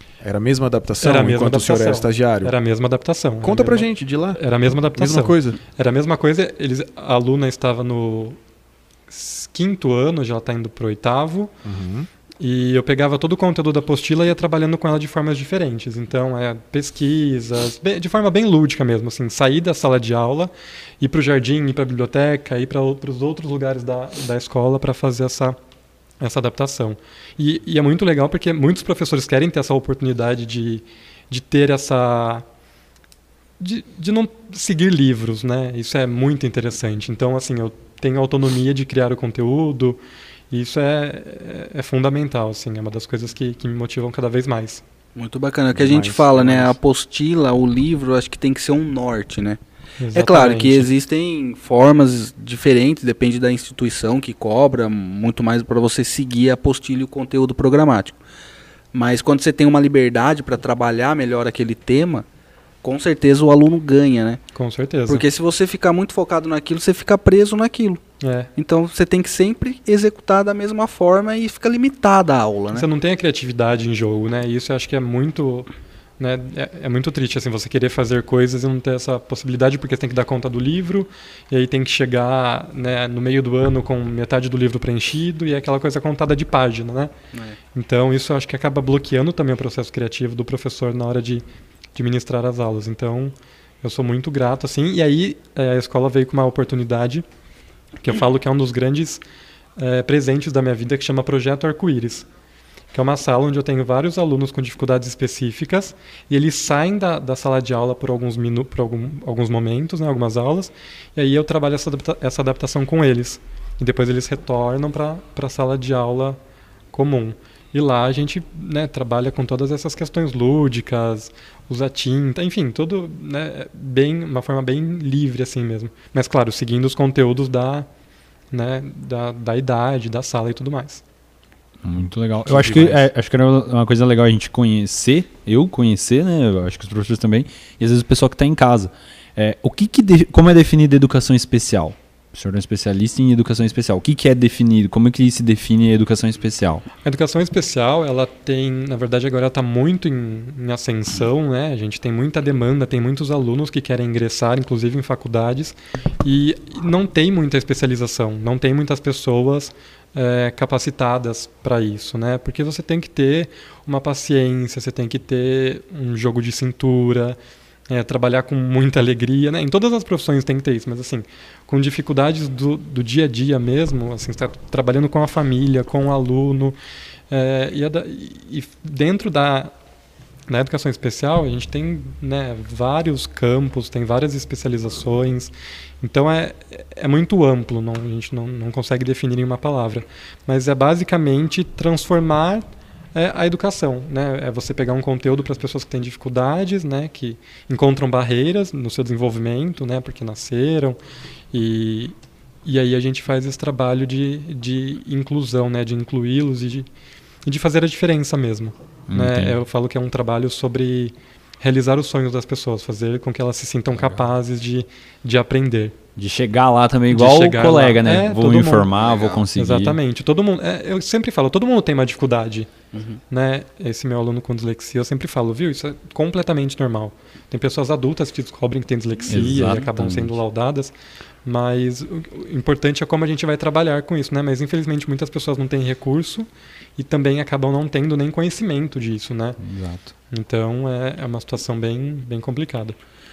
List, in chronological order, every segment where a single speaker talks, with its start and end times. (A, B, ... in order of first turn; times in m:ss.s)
0:00.2-0:02.5 A
0:01.0-0:03.9 B
0:03.4-0:05.6 A
0:04.4-0:08.4 B
0:09.1-0:11.5 B
0:11.6-0:12.1 A
0:12.4-0:25.6 B
0:26.2-0:32.4 B
0:33.6-0:40.0 B
0:40.5-0:44.8 B
0:45.2-0:49.6 C
0:45.7-0:46.8 A
0:50.0-0:50.9 B
0:50.1-0:58.2 C
0:58.9-1:02.2 C
1:02.8-1:04.4 C
1:04.6-1:05.2 B
1:05.1-1:08.0 C
1:08.2-1:08.5 B
1:08.6-1:12.9 C
1:12.7-1:15.7 B
1:16.2-1:27.1 B
1:27.7-1:31.4 B
1:32.0-1:37.2 B
1:38.0-1:39.2 B
1:39.8-1:42.3 B
1:42.9-1:56.4 B
1:56.9-2:07.9 B
2:08.5-2:11.0 B
2:11.8-2:26.8 D
2:12.5-2:13.0 A
2:27.0-2:47.4 B
2:47.9-2:56.8 B
2:57.3-2:59.7 B
3:00.5-3:21.0 B
3:21.5-3:26.9 B
3:27.5-3:36.0 B
3:29.1-3:29.6 D
3:34.0-3:34.2 D
3:36.2-3:40.0 D
3:37.1-3:38.9 B
3:39.0-3:39.4 C
3:39.6-3:42.7 B
3:42.9-3:43.2 C
3:43.3-3:50.9 B
3:49.3-3:50.4 D
3:51.4-3:59.6 B
3:59.6-4:00.1 D
4:00.3-4:03.0 B